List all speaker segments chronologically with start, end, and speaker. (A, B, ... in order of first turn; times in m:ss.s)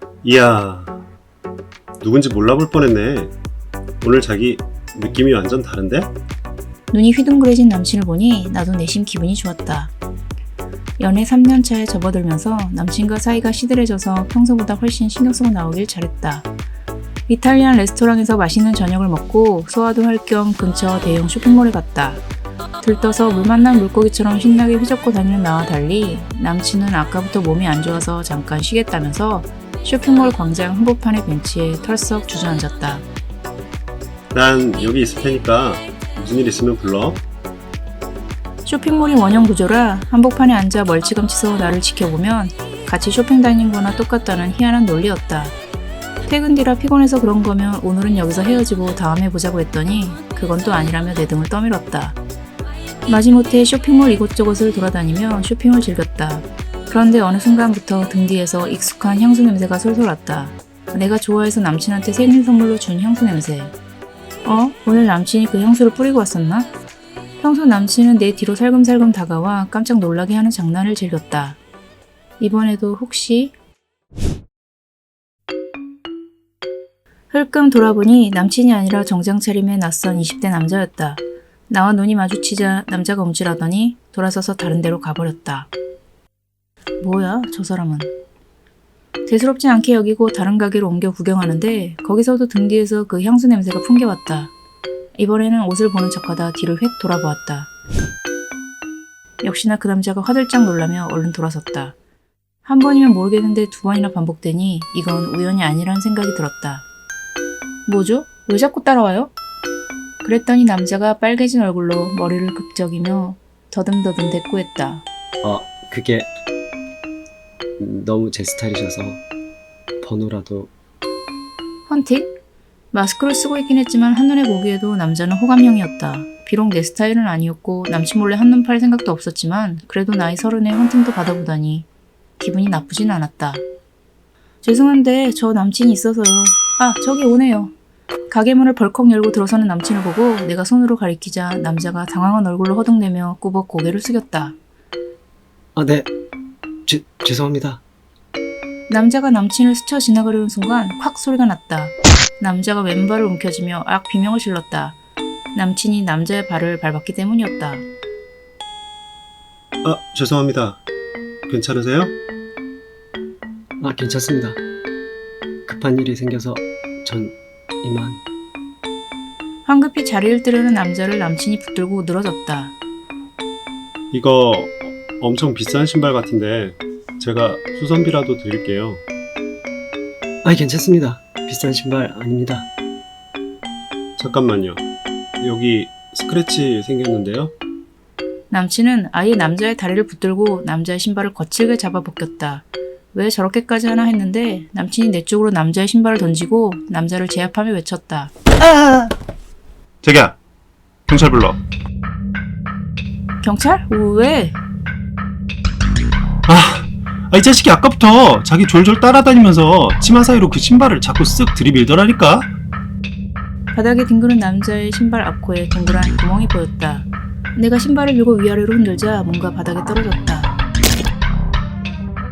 0:00.2-0:01.0 A
0:02.0-0:03.3 A
0:04.0-0:06.1 A
0:06.9-0:09.9 B
0:11.0-0:16.5 B
0:17.3-0:22.2 B
0:22.8-0:33.1 B
0:34.3-0:37.2 A
0:38.6-0:45.6 B
0:46.3-0:52.2 B
0:53.1-1:03.7 B
1:04.4-1:06.7 B
1:07.4-1:11.6 B
1:12.4-1:13.5 B
1:17.3-1:25.7 B
1:27.0-1:28.1 B
1:29.3-1:34.5 B
1:35.2-1:37.7 B
1:39.4-1:42.0 B
1:42.6-1:46.9 B
1:47.9-1:49.3 B
1:50.2-1:55.0 B
1:55.4-1:56.3 C
1:57.8-1:59.2 C
2:00.0-2:00.7 C
2:01.9-2:02.3 B
2:02.9-2:11.9 B
2:12.4-2:13.6 B
2:14.6-2:17.7 B
2:18.3-2:24.6 B
2:25.8-2:26.1 C
2:26.9-2:27.8 C
2:28.9-2:35.0 B
2:35.5-2:37.9 B
2:39.8-2:40.8 A
2:41.5-2:42.1 A
2:43.8-2:44.6 C
2:45.7-2:48.2 C
2:49.7-2:52.8 B
2:54.1-2:59.0 A
3:00.4-3:02.7 C
3:04.2-3:04.8 A
3:05.4-3:07.6 A
3:08.5-3:18.3 B
3:20.0-3:20.4 A
3:21.1-3:21.6 A
3:23.4-3:24.6 B
3:26.5-3:32.5 A
3:33.7-3:40.6 B